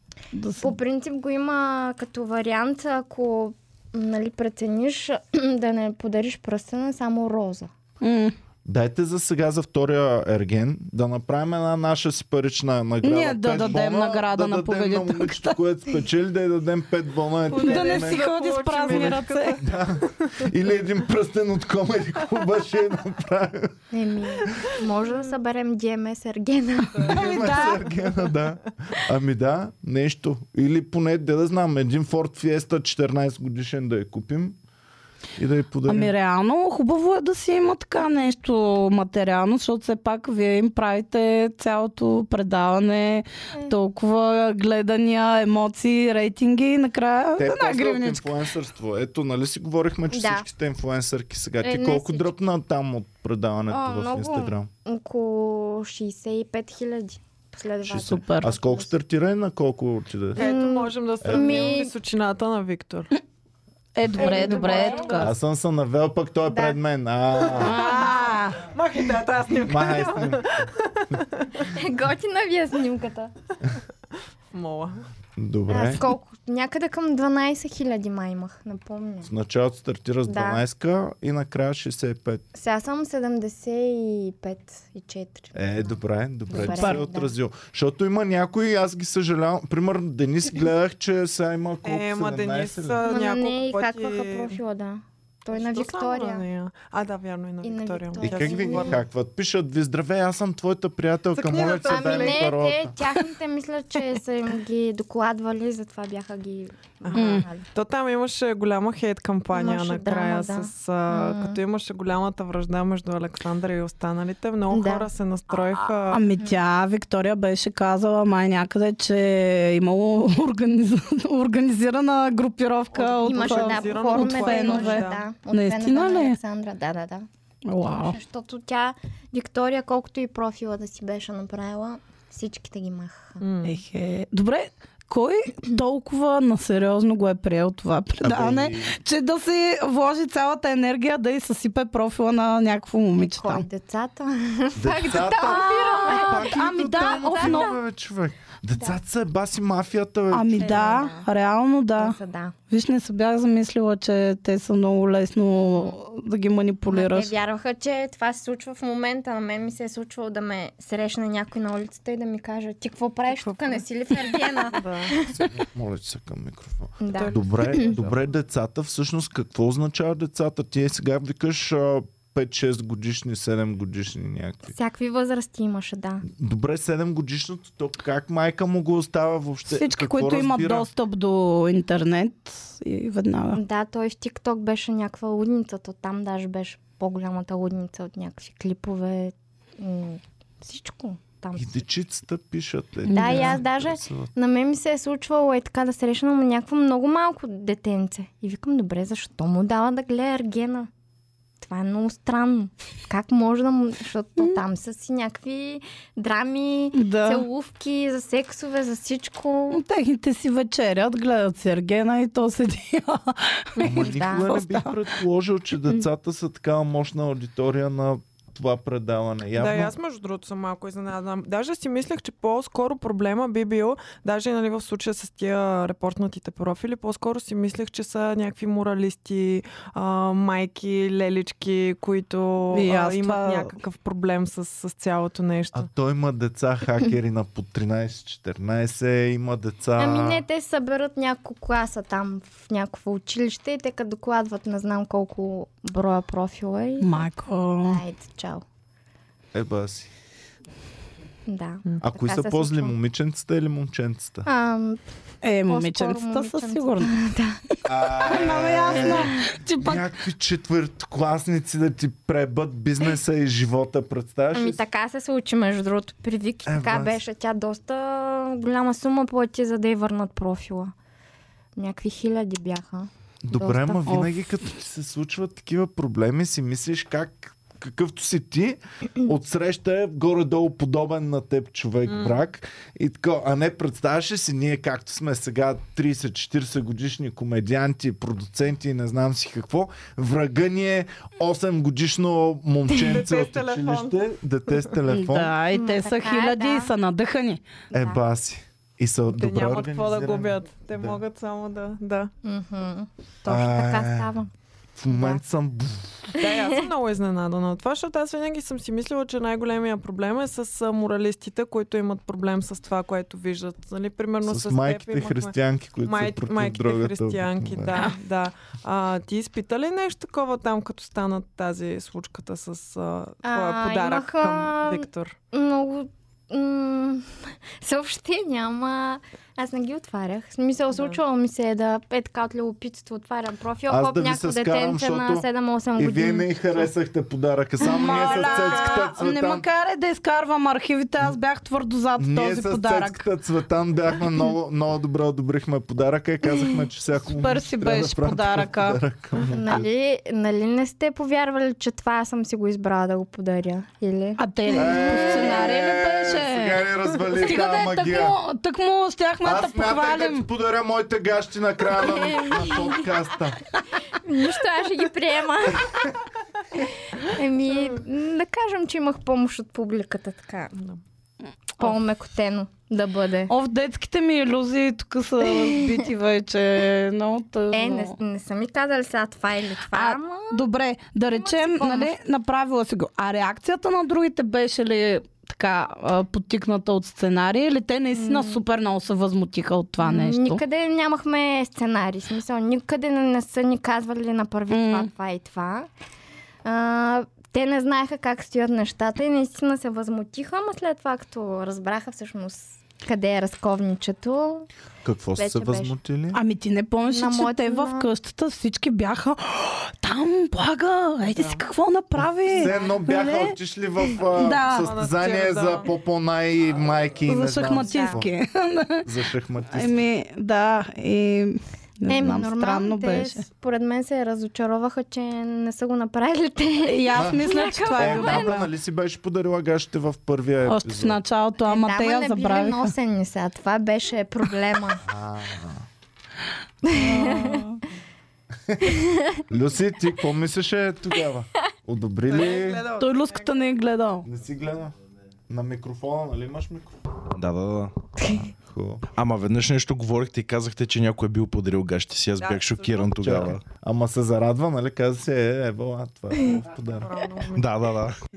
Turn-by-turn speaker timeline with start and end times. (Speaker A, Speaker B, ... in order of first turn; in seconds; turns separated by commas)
Speaker A: 0.3-0.8, Speaker B: 0.6-7.7, Speaker A: 8.0-8.3, Speaker C: 8.6-18.3, Speaker A: 13.0-15.6, Speaker D: 17.5-20.4, Speaker A: 17.5-19.6, Speaker C: 18.8-23.7, Speaker B: 23.9-27.6, Speaker D: 26.9-27.7, Speaker A: 27.0-27.9, Speaker C: 27.0-34.5, Speaker C: 35.4-36.1, Speaker A: 35.9-48.3, Speaker C: 47.4-54.7, Speaker B: 50.1-50.4, Speaker B: 51.6-52.3, Speaker B: 53.7-58.9, Speaker C: 57.8-60.4, Speaker A: 57.9-58.5, Speaker B: 60.3-61.9, Speaker D: 60.3-63.1, Speaker C: 61.2-61.7, Speaker A: 64.0-65.3, Speaker D: 64.1-65.3, Speaker B: 64.1-65.2, Speaker C: 65.2-67.9, Speaker B: 66.5-66.8, Speaker D: 67.5-71.6, Speaker A: 67.6-68.7, Speaker C: 69.6-71.2, Speaker B: 71.6-73.3, Speaker D: 74.5-75.0, Speaker C: 75.4-76.0, Speaker B: 75.7-79.3, Speaker C: 79.2-82.4, Speaker B: 80.3-80.6, Speaker B: 82.5-86.0, Speaker C: 85.5-93.0, Speaker B: 86.5-87.3, Speaker A: 86.6-87.0, Speaker D: 91.8-94.6, Speaker B: 93.0-96.4, Speaker D: 95.5-99.0, Speaker B: 97.6-99.0, Speaker C: 98.2-103.0, Speaker D: 101.3-102.6, Speaker B: 101.5-107.6, Speaker D: 107.0-116.2, Speaker A: 107.1-107.5, Speaker B: 109.5-111.6, Speaker B: 114.7-115.1, Speaker A: 116.1-126.4, Speaker D: 122.9-125.2, Speaker B: 123.1-127.3, Speaker A: 127.7-128.2, Speaker B: 127.9-133.4, Speaker D: 133.4-133.8, Speaker A: 133.6-143.6, Speaker C: 138.2-139.0, Speaker B: 143.2-147.8, Speaker C: 144.8-150.9, Speaker A: 145.4-147.8, Speaker A: 150.3-152.2, Speaker B: 150.6-151.3, Speaker B: 152.0-152.5, Speaker A: 152.7-157.3, Speaker B: 156.8-165.5, Speaker D: 163.3-165.1, Speaker C: 165.3-174.7, Speaker B: 167.0-167.9, Speaker D: 167.1-168.1, Speaker B: 174.7-176.2, Speaker C: 176.2-180.9, Speaker A: 179.7-183.6, Speaker B: 183.5-191.8, Speaker C: 191.6-194.3, Speaker A: 193.1-193.6, Speaker B: 193.1-200.9, Speaker B: 201.6-209.8, Speaker A: 206.9-207.4, Speaker A: 209.7-215.0, Speaker C: 213.8-219.9, Speaker B: 213.8-214.5, Speaker D: 219.6-235.9, Speaker A: 232.7-233.7, Speaker C: 235.7-240.4, Speaker B: 240.0-247.2, Speaker A: 247.0-248.0, Speaker B: 247.8-248.6, Speaker C: 249.5-250.1, Speaker B: 251.5-252.9, Speaker C: 252.0-254.5, Speaker B: 254.4-255.0, Speaker A: 255.4-257.1, Speaker B: 255.6-257.6, Speaker C: 257.8-264.8, Speaker A: 258.2-260.1, Speaker B: 258.9-259.4, Speaker B: 264.5-270.9, Speaker C: 266.6-267.2, Speaker B: 271.8-274.1, Speaker C: 273.4-295.5, Speaker A: 274.1-274.7, Speaker D: 282.1-282.4, Speaker D: 293.0-294.2, Speaker A: 295.1-297.6, Speaker B: 295.7-296.9, Speaker B: 297.9-298.2, Speaker C: 297.9-301.2, Speaker D: 299.3-302.3, Speaker B: 302.4-304.5, Speaker C: 303.4-304.3, Speaker C: 305.0-306.3, Speaker B: 305.1-305.4, Speaker D: 306.4-325.3, Speaker C: 314.4-318.0, Speaker B: 323.4-336.5, Speaker D: 330.9-331.2, Speaker C: 333.9-339.6, Speaker A: 337.8-343.2, Speaker C: 342.2-349.9, Speaker A: 347.2-349.0, Speaker B: 349.5-355.7, Speaker A: 354.4-360.4, Speaker C: 354.7-358.4, Speaker C: 359.4-363.6, Speaker B: 361.9-363.1, Speaker B: 364.1-366.1, Speaker B: 367.2-370.8, Speaker B: 371.8-373.5, Speaker A: 373.5-378.1, Speaker B: 375.5-376.0, Speaker B: 377.7-380.6, Speaker A: 379.9-390.6, Speaker B: 381.3-382.1, Speaker B: 388.1-388.6, Speaker B: 390.0-395.9, Speaker A: 394.7-395.1, Speaker B: 396.6-404.7, Speaker C: 405.0-406.4, Speaker B: 405.4-405.9, Speaker A: 406.3-413.6, Speaker B: 407.1-408.1, Speaker D: 411.3-411.6, Speaker C: 412.5-418.3, Speaker A: 414.4-414.9, Speaker D: 414.6-415.9, Speaker A: 417.2-419.1, Speaker B: 417.7-418.2, Speaker C: 419.0-420.0, Speaker A: 419.7-423.4, Speaker B: 422.1-428.6, Speaker A: 426.8-428.7, Speaker C: 427.1-431.2, Speaker A: 430.6-432.9, Speaker B: 431.6-435.0, Speaker C: 435.0-435.8, Speaker B: 436.8-437.6, Speaker A: 436.9-437.8, Speaker B: 438.9-439.4, Speaker C: 439.5-442.8, Speaker D: 442.3-443.6, Speaker A: 443.0-444.2, Speaker C: 444.2-444.9, Speaker C: 445.5-446.9, Speaker E: 447.3-447.9, Speaker C: 448.6-449.0, Speaker E: 449.1-453.6, Speaker D: 452.4-453.1, Speaker C: 453.1-457.1, Speaker D: 457.0-457.7, Speaker E: 457.5-458.1